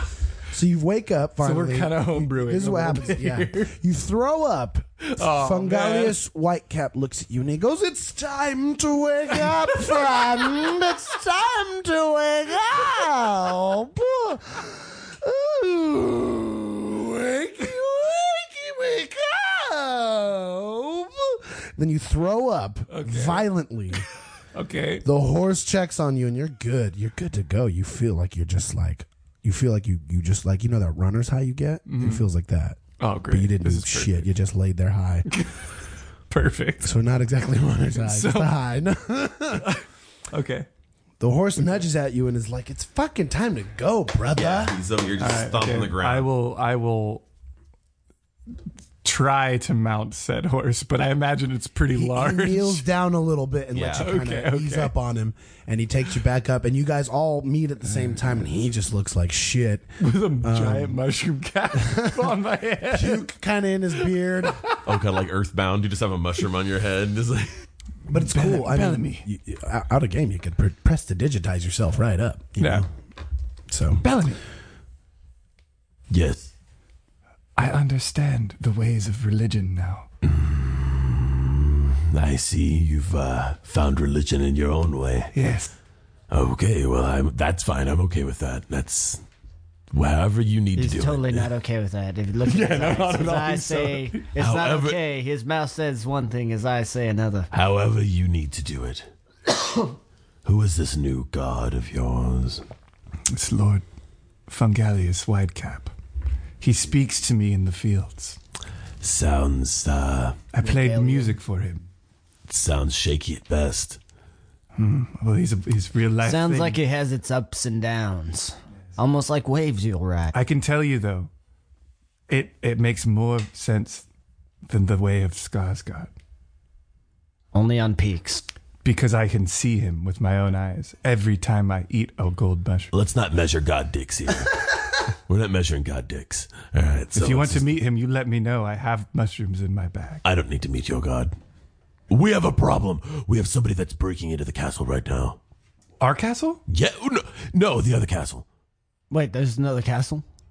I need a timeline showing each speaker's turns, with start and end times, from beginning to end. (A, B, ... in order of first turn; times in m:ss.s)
0:00.5-0:24.0 A
0:01.4-0:03.7 B
0:05.1-0:06.2 B
0:22.9-0:23.5 B
0:24.5-0:25.0 B
0:25.0-0:35.3 A
0:31.9-0:32.2 B
0:33.0-0:34.3 B
0:35.3-0:35.7 B
0:36.3-0:36.9 B
0:36.8-0:39.8 A
0:37.9-0:38.5 B
0:39.6-0:40.7 B
0:41.2-0:44.8 A
0:44.3-0:46.3 C
0:45.2-0:47.2 B
0:49.0-0:52.8 B
0:51.9-1:01.0 A
0:53.7-0:54.1 C
0:54.0-0:54.9 B
1:00.0-1:03.2 B
1:01.8-1:02.4 A
1:02.9-1:04.6 A
1:04.4-1:04.8 B
1:04.8-1:07.5 C
1:08.1-1:12.9 A
1:08.1-1:09.2 B
1:12.6-1:12.8 B
1:13.7-1:14.0 A
1:14.0-1:14.4 B
1:16.1-1:16.5 C
1:17.6-1:20.1 B
1:20.2-1:25.3 C
1:25.3-1:25.7 B
1:26.3-1:29.2 C
1:29.9-1:31.5 C
1:30.7-1:37.5 D
1:32.4-1:34.3 B
1:34.4-1:35.0 C
1:37.5-1:39.1 C
1:40.4-1:42.6 C
1:43.3-1:43.8 B
1:44.5-1:45.9 B
1:46.6-1:48.4 B
1:49.0-1:50.4 C
1:50.5-1:51.8 B
1:50.6-1:51.3 D
1:52.5-1:54.0 C
1:54.8-1:56.8 B
1:56.2-2:00.4 D
2:00.3-2:01.3 B
2:02.3-2:04.0 B
2:04.7-2:06.1 B
2:07.5-2:08.4 D
2:08.8-2:12.9 B
2:12.9-2:14.6 C
2:15.3-2:17.6 C
2:17.1-2:20.2 B
2:20.2-2:21.3 C
2:22.1-2:25.4 C
2:26.0-2:26.6 B
2:26.7-2:28.4 C
2:29.1-2:30.2 D